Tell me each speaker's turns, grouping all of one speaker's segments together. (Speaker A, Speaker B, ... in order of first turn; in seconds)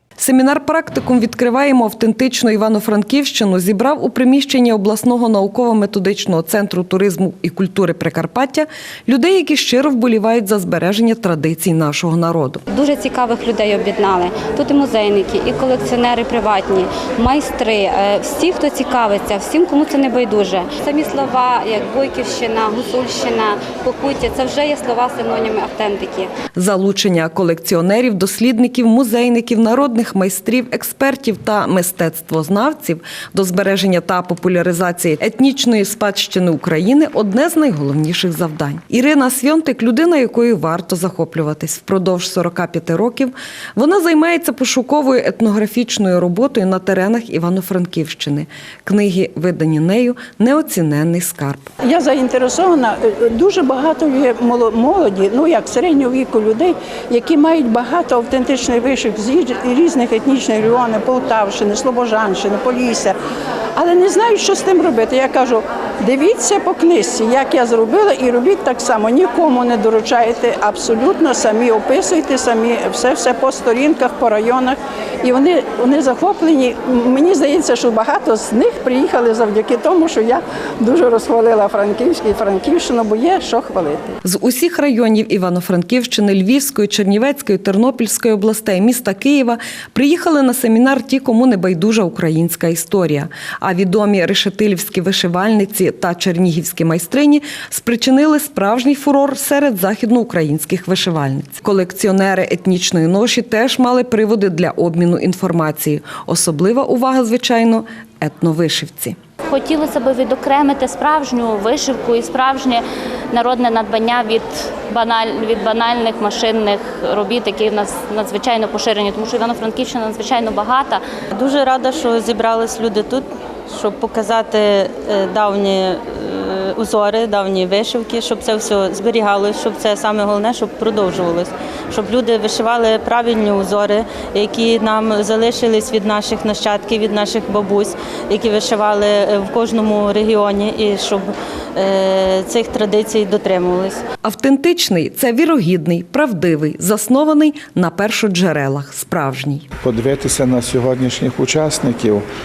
Speaker A: 0.2-12.6, 26.6-51.7, 84.2-109.2, 144.2-149.7
Speaker B: 12.7-26.3
Speaker C: 51.8-63.2, 63.8-84.2
Speaker D: 109.5-112.8, 113.3-121.0
Speaker E: 121.3-141.2, 141.8-144.0
Speaker F: 149.8-152.3